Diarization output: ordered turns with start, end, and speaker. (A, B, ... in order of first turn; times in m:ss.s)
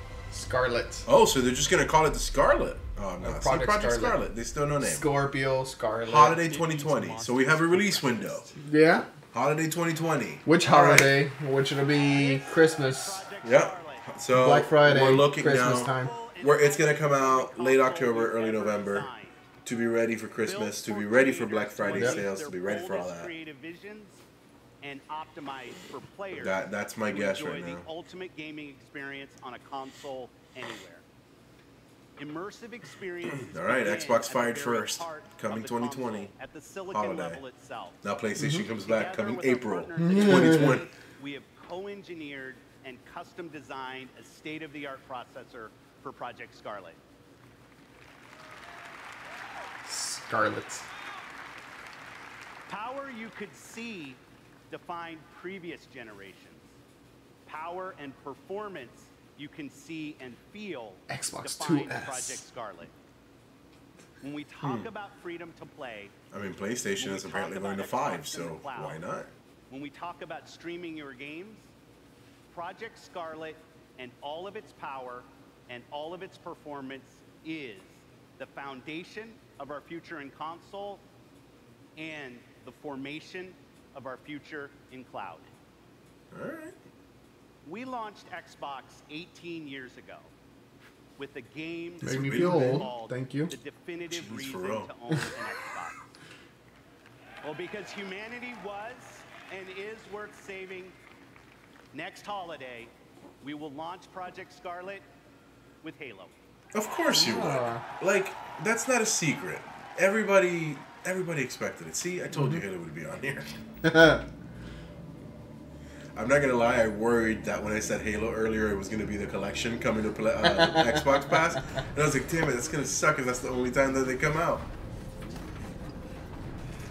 0:00.3-0:01.1 A
0:01.1-0:05.1 B
0:03.2-0:04.2 A
0:04.8-0:06.4 A
0:06.1-0:08.5 B
0:08.6-0:09.1 A
0:09.3-0:11.2 B
0:10.4-0:13.2 A
0:12.1-0:14.1 C
0:13.4-0:19.1 B
0:14.3-0:16.1 A
0:15.4-0:19.4 C
0:19.6-0:23.3 B
0:20.4-0:24.3 C
0:21.9-0:22.2 A
0:24.8-0:31.0 C
0:26.4-0:27.9 B
0:32.2-0:38.0 C
0:33.4-0:36.3 B
0:36.9-0:37.4 B
0:38.0-0:40.9 B
0:38.4-0:38.7 A
0:38.8-0:47.0 C
0:40.0-0:40.8 A
0:49.8-0:50.9 A
0:52.7-0:56.8 C
0:57.5-1:02.9 C
1:01.1-1:02.4 A
1:04.2-1:06.2 C
1:04.6-1:04.9 B
1:06.3-1:09.3 B
1:07.0-1:09.0 C
1:09.7-1:11.7 C
1:12.5-1:21.0 C
1:22.0-1:25.5 C
1:26.3-1:26.8 B
1:27.6-1:30.3 C
1:31.2-1:36.0 C
1:32.0-1:32.9 B
1:32.0-1:33.5 A
1:34.1-1:34.9 B
1:37.4-1:41.0 C
1:41.9-1:45.1 C
1:45.8-1:46.4 C
1:46.7-1:53.5 B
1:47.1-1:47.8 A
1:52.3-1:52.6 A
1:53.8-1:54.2 A
1:56.2-2:04.6 B
2:00.4-2:01.6 A